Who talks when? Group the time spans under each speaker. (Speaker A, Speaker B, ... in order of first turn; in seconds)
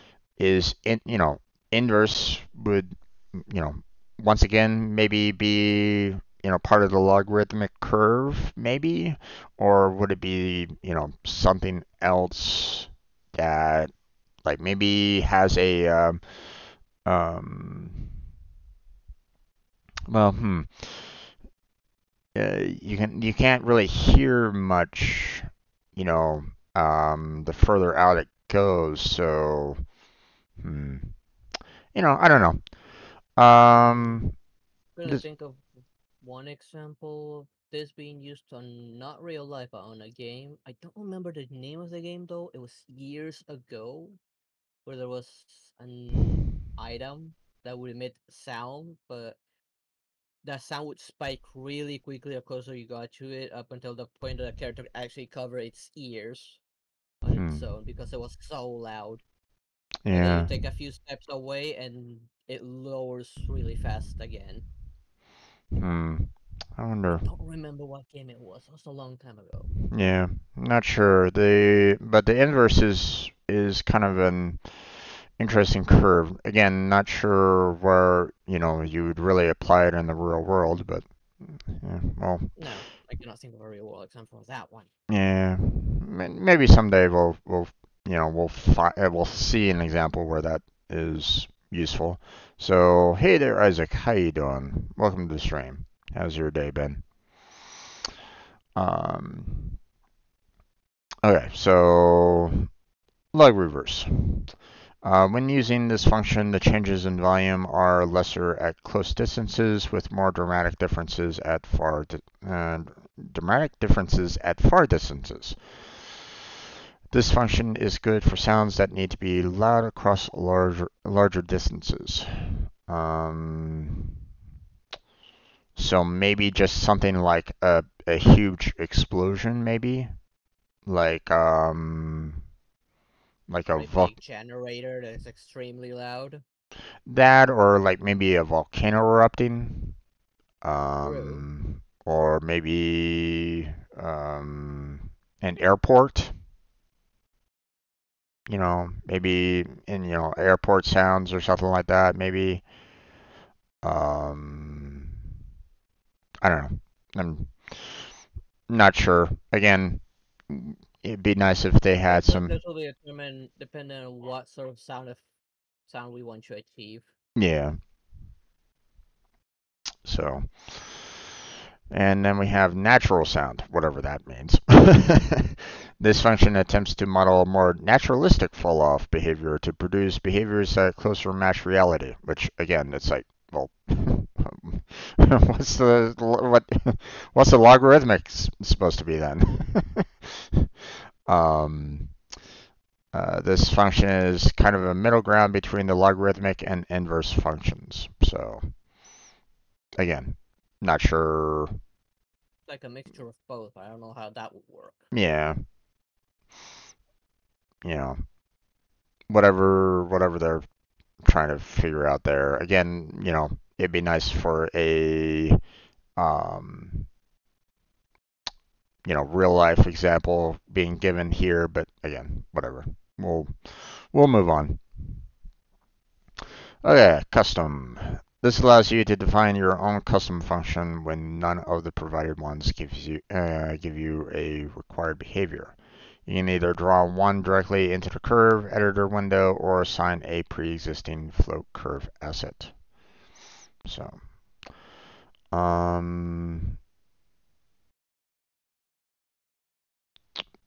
Speaker A: 0.4-13.9, 14.4-16.2, 17.1-18.1, 20.1-21.2, 22.4-29.8, 30.6-31.1, 31.9-32.6, 33.4-34.4, 57.3-57.6, 60.0-60.5, 65.7-67.2, 69.9-74.6, 75.4-82.5, 85.1-97.0, 98.8-99.8, 101.2-102.7, 103.3-104.5, 105.0-115.6, 117.1-124.2, 125.8-130.1, 130.9-132.4, 133.5-134.1, 137.1-140.0, 140.6-146.3, 148.5-152.6, 153.8-155.2, 156.4-158.0, 158.7-162.6, 167.4-167.8, 170.1-171.1, 171.9-190.7, 191.3-192.1, 193.1-198.6, 200.0-201.7, 205.1-205.6, 207.8-208.2, 209.3-210.6, 211.2-215.6, 216.2-217.1, 219.1-224.8, 226.8-242.7, 243.9-244.2, 245.5-246.8
Speaker B: 33.7-34.2, 35.0-35.6, 36.2-44.2, 44.9-49.4, 50.4-56.6, 57.2-59.2, 60.1-64.7, 67.1-69.7, 82.6-84.9, 133.7-136.4, 141.0-141.4, 162.1-165.3, 165.9-167.1, 202.7-205.1